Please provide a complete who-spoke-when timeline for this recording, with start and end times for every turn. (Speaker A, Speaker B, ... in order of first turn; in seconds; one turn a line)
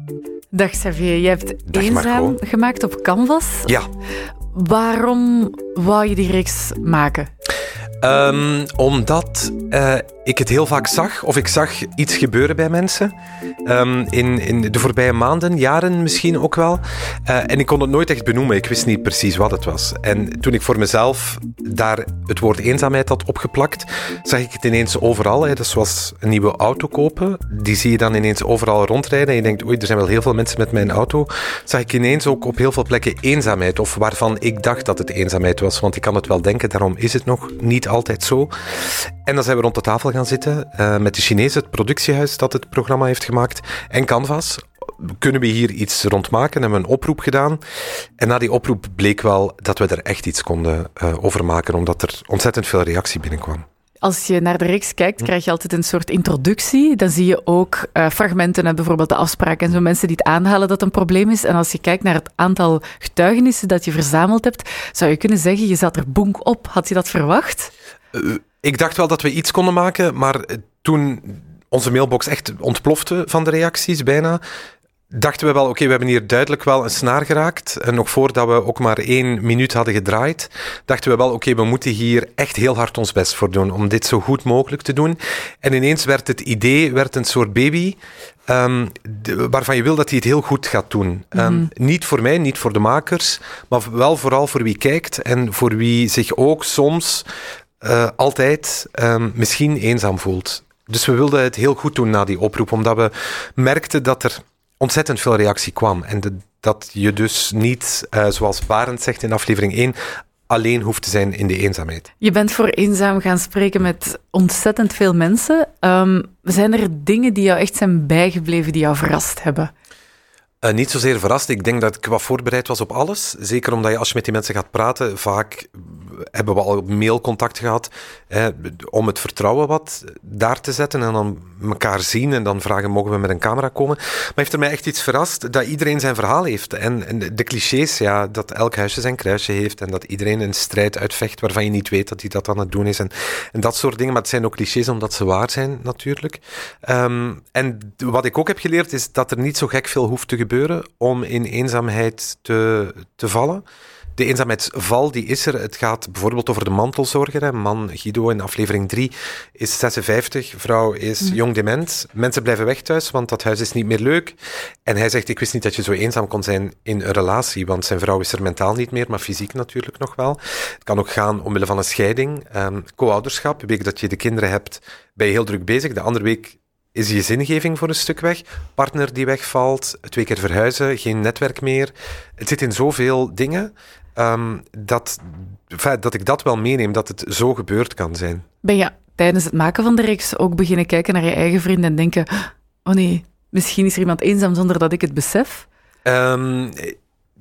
Speaker A: 0.5-3.7
Speaker B: 1.7-2.4
Speaker A: 4.5-7.3
Speaker B: 8.0-13.1
Speaker B: 13.7-47.6
Speaker B: 48.2-53.6
Speaker A: 54.0-67.7
Speaker B: 68.1-74.4
Speaker B: 75.1-97.3
Speaker A: 91.3-91.7
Speaker B: 97.8-110.0
Speaker B: 110.5-112.1
Speaker A: 112.2-119.7
Speaker B: 120.6-153.6
Speaker B: 154.2-188.5
Speaker A: 188.6-195.7
Speaker B: 196.1-197.0